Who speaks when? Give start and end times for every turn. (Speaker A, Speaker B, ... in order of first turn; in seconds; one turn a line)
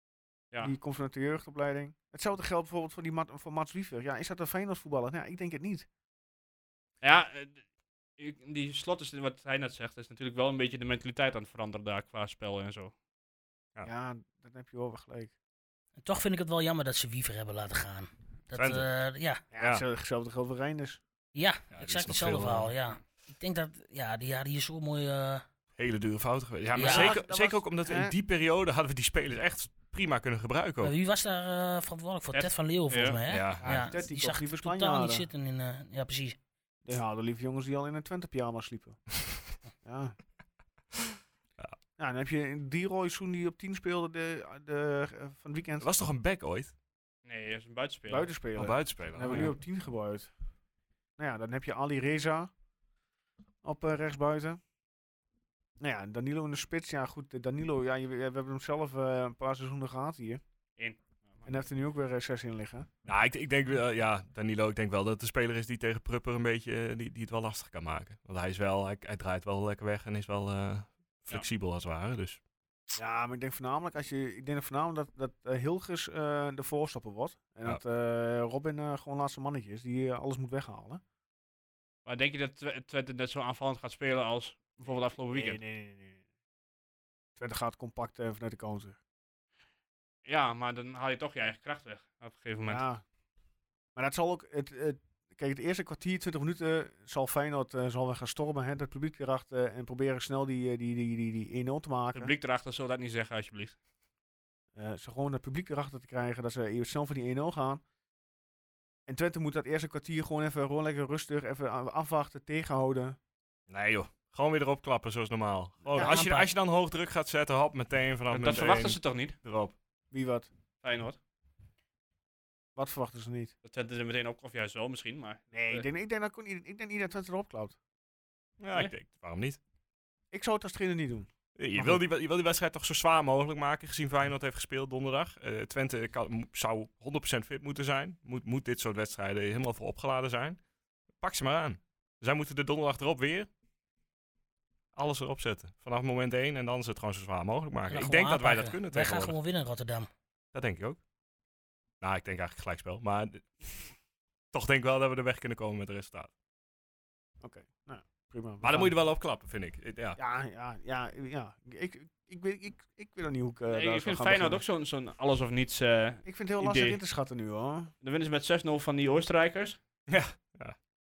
Speaker A: 0.6-5.9
Speaker B: 7.0-7.6
Speaker B: 8.2-12.9
Speaker A: 13.8-15.3
Speaker C: 16.0-19.4
Speaker D: 18.5-18.9
Speaker A: 19.5-21.0
Speaker D: 19.6-19.8
Speaker C: 21.3-25.4
Speaker D: 21.7-22.7
Speaker D: 25.8-30.9
Speaker C: 26.8-27.2
Speaker A: 26.8-28.1
Speaker C: 30.8-36.4
Speaker B: 32.3-33.2
Speaker D: 33.3-33.9
Speaker A: 33.6-35.3
Speaker A: 36.9-39.0
Speaker A: 39.8-40.2
Speaker A: 42.0-45.9
Speaker D: 45.8-46.7
Speaker B: 47.2-48.3
Speaker A: 48.1-50.3
Speaker D: 48.6-49.5
Speaker A: 51.2-52.5
Speaker A: 53.6-54.6
Speaker A: 55.8-60.4
Speaker B: 60.8-61.5
Speaker A: 61.5-62.9
Speaker D: 63.0-72.4
Speaker A: 73.0-81.0
Speaker B: 82.0-85.6
Speaker A: 85.3-86.2
Speaker A: 87.4-89.0
Speaker B: 90.3-92.8
Speaker A: 92.7-93.0
Speaker A: 94.0-102.3
Speaker B: 102.1-103.8
Speaker A: 104.8-107.8
Speaker A: 109.1-113.2
Speaker D: 113.7-119.8
Speaker C: 116.0-116.5
Speaker B: 118.3-119.4
Speaker A: 120.1-120.5
Speaker B: 120.8-121.2
Speaker A: 122.8-123.5
Speaker B: 123.6-125.9
Speaker A: 125.5-127.8
Speaker D: 128.6-129.6
Speaker A: 130.3-132.0
Speaker D: 131.6-140.6
Speaker D: 141.2-143.5
Speaker D: 144.9-149.4
Speaker C: 147.9-150.1
Speaker D: 150.5-151.0
Speaker D: 152.0-153.7
Speaker D: 154.5-156.3
Speaker A: 157.4-158.9
Speaker D: 158.6-160.2
Speaker A: 160.2-164.6
Speaker B: 163.7-167.0
Speaker A: 166.2-167.9
Speaker B: 168.0-169.8
Speaker D: 170.1-170.8